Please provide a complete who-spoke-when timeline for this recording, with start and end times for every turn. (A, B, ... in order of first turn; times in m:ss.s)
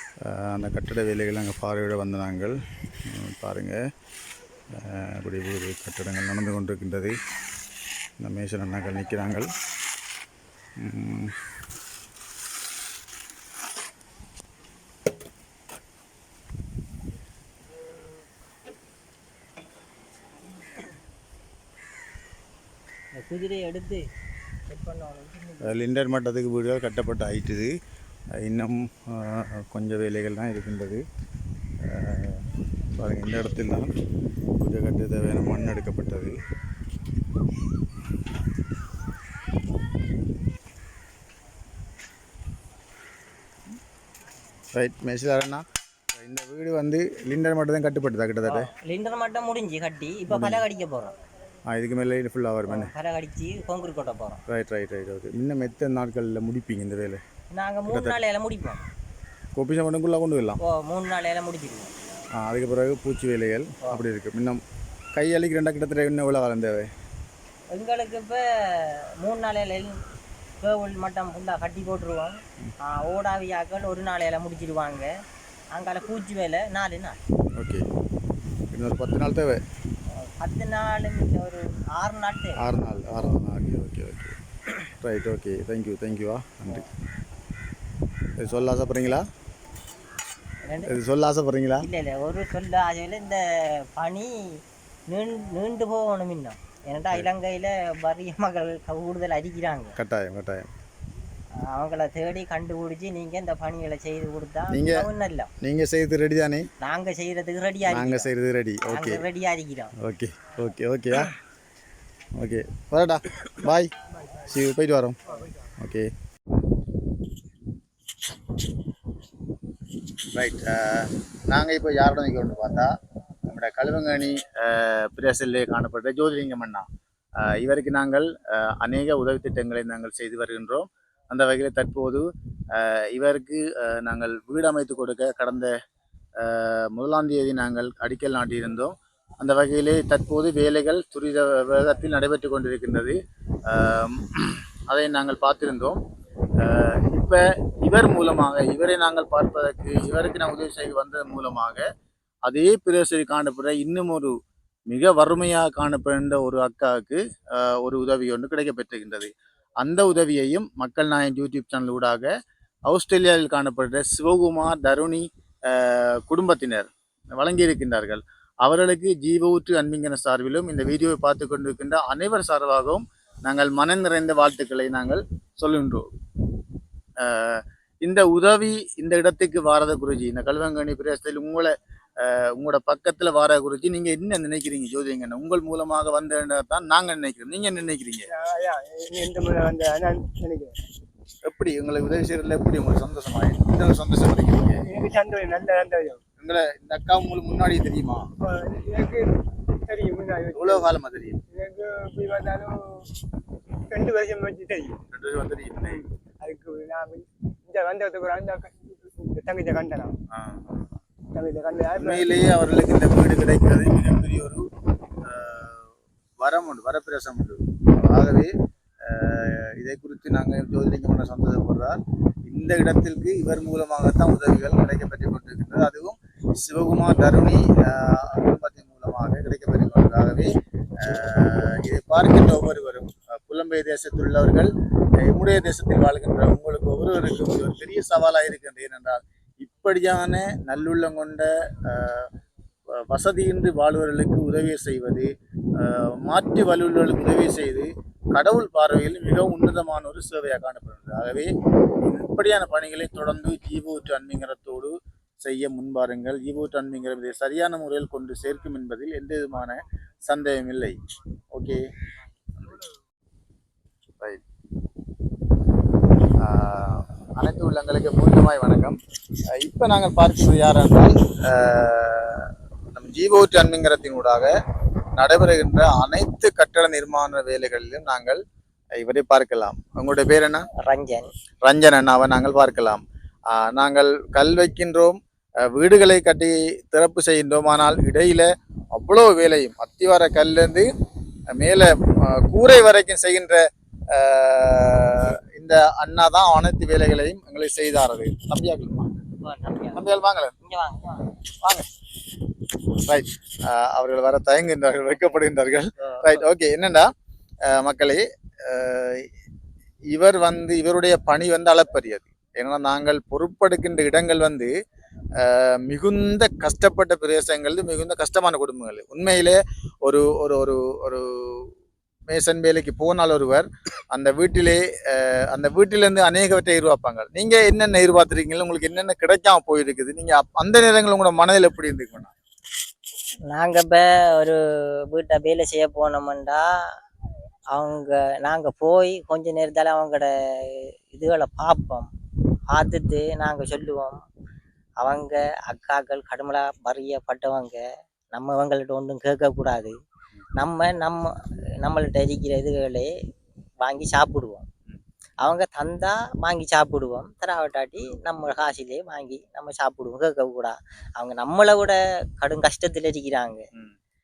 0:00.2-0:03.8 A
0:04.7-0:07.2 A
0:08.2-0:09.5 A
0:10.8-0:11.3 A
0:23.2-0:24.0 B
0:24.7-0:25.8 B
0:25.6-0:27.7 A
0:28.4-0:31.0 A
0:31.8-0:32.4 A
0:33.0-0:33.9 A
0:34.6-0:36.4 A
0:44.7-0:48.7 A
0:48.4-0:51.1 B
0:50.3-0:50.6 A
0:51.7-0:52.9 A
0:52.7-0:54.4 B
0:54.5-0:57.2 A
0:57.5-0:58.8 B
0:57.9-0:58.2 A
0:59.5-1:00.6 A
1:00.6-1:01.9 B
1:02.4-1:04.6 A
1:05.1-1:06.9 A
1:07.7-1:10.0 B
1:10.6-1:15.1 B
1:15.7-1:17.2 B
1:17.6-1:17.8 A
1:18.7-1:19.6 A
1:20.1-1:22.7 B
1:22.6-1:26.9 A
1:28.4-1:29.2 A
1:30.6-1:30.9 B
1:30.8-1:31.9 A
1:31.8-1:39.9 B
1:40.0-1:40.7 A
1:41.6-1:45.5 B
1:44.7-1:45.1 A
1:45.6-1:46.7 A
1:46.8-1:48.3 B
1:47.9-1:49.2 A
1:48.9-1:49.9 B
1:50.0-1:51.3 A
1:52.3-1:55.2 A
1:55.8-1:56.1 A
2:00.3-2:02.9 A
2:03.5-2:06.8 A
2:07.4-2:15.7 A
2:16.4-2:26.0 A
2:26.6-2:31.8 A
2:32.4-2:34.3 A
2:34.9-2:42.3 A
2:42.9-2:56.1 A
2:57.2-3:08.3 A
3:08.3-3:10.7 C
3:11.4-3:14.8 A
3:14.8-3:16.2 C
3:16.4-3:18.3 A
3:18.4-3:20.8 C
3:20.5-3:21.4 A
3:21.5-3:23.1 C
3:23.8-3:25.0 C
3:25.1-3:26.1 A
3:26.4-3:30.1 C
3:30.3-3:30.8 A
3:31.3-3:32.3 C
3:31.9-3:34.6 A
3:35.2-3:38.5 A
3:39.0-4:02.3 A
4:02.9-4:21.0 A
4:21.5-4:21.8 A
4:26.4-4:29.0 A
4:29.5-4:34.5 A
4:35.2-4:38.4 A
4:39.0-4:40.6 A
4:40.8-4:41.3 B
4:41.6-4:50.9 A
4:51.5-4:59.2 A
4:59.4-5:00.0 B
4:59.9-5:00.5 A
5:00.6-5:01.4 B
5:01.6-5:01.9 A
5:02.9-5:07.1 A
5:06.0-5:06.4 B
5:07.6-5:09.3 A
5:10.1-5:14.7 A
5:15.4-5:21.7 A
5:22.3-5:32.3 A
5:33.5-5:36.6 B
5:37.7-5:42.1 B
5:42.7-5:44.2 B
5:45.0-5:49.9 B
5:50.6-5:53.1 B
5:53.8-5:54.7 B
5:55.4-6:03.6 B